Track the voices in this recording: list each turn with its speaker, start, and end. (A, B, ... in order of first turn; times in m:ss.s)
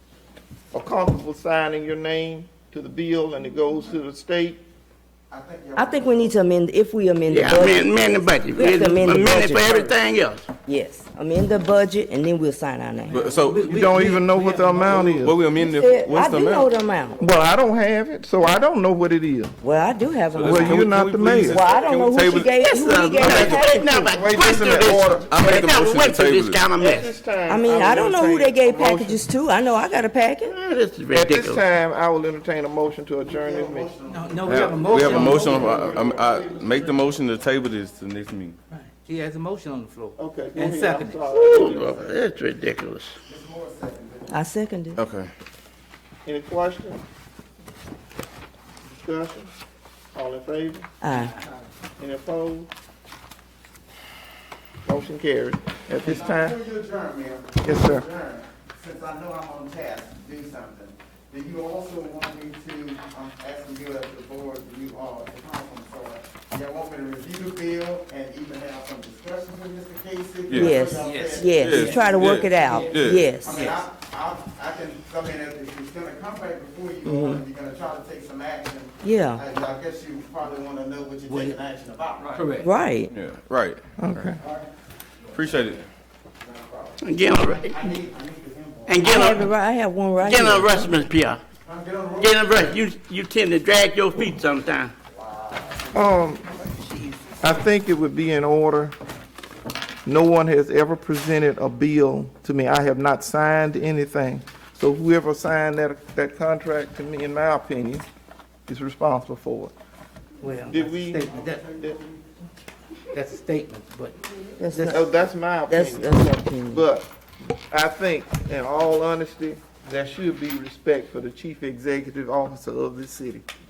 0:00.7-0:04.6 A
0:05.3-0:06.4 B
0:05.8-0:09.9 C
0:07.3-0:10.5 D
0:10.6-0:13.2 C
0:13.1-0:13.8 E
0:13.2-0:15.1 F
0:13.6-0:15.4 A
0:14.8-0:16.7 E
0:15.6-0:17.2 C
0:17.2-0:19.6 A
0:19.6-0:24.1 C
0:20.3-0:23.9 E
0:20.4-0:21.6 A
0:22.5-0:27.1 D
0:24.1-0:25.4 A
0:24.5-0:26.6 E
0:26.8-0:29.2 A
0:27.5-0:30.5 C
0:30.5-0:31.6 D
0:31.1-0:33.9 A
0:33.2-0:37.0 B
0:34.0-0:35.7 F
0:34.4-0:38.6 E
0:35.1-0:36.3 A
0:38.7-0:41.2 F
0:40.2-0:42.1 A
0:41.2-0:43.1 D
0:43.2-0:44.4 B
0:44.3-0:45.0 C
0:44.9-0:45.3 E
0:46.2-0:47.0 A
0:48.9-0:49.5 A
0:50.1-0:50.9 A
0:51.0-0:51.3 C
0:51.1-0:51.6 F
0:52.0-0:52.7 A
0:54.8-0:56.6 A
0:56.0-1:12.9 B
0:57.6-0:58.0 A
1:10.5-1:10.8 E
1:10.5-1:13.6 C
1:10.9-1:11.5 F
1:11.6-1:13.3 E
1:12.6-1:13.8 F
1:13.4-1:22.5 B
1:17.0-1:17.4 C
1:19.0-1:19.4 C
1:21.3-1:21.6 F
1:22.2-1:22.7 F
1:22.6-1:23.1 C
1:23.1-1:24.3 E
1:24.0-1:24.4 A
1:24.4-1:24.7 B
1:25.3-1:25.9 E
1:25.3-1:25.7 B
1:26.4-1:29.1 B
1:27.0-1:27.9 D
1:28.9-1:29.5 D
1:29.0-1:30.9 C
1:30.2-1:31.4 D
1:31.6-1:32.8 B
1:32.2-1:34.9 D
1:35.1-1:36.0 B
1:35.9-1:36.5 A
1:37.4-1:38.9 A
1:40.0-1:48.0 A
1:48.7-1:49.7 A
1:50.4-1:51.6 F
1:50.6-1:51.3 A
1:51.2-1:52.2 B
1:53.1-1:54.2 F
1:54.6-1:55.0 C
1:54.7-1:55.0 F
1:54.8-2:03.4 A
1:55.7-1:56.8 C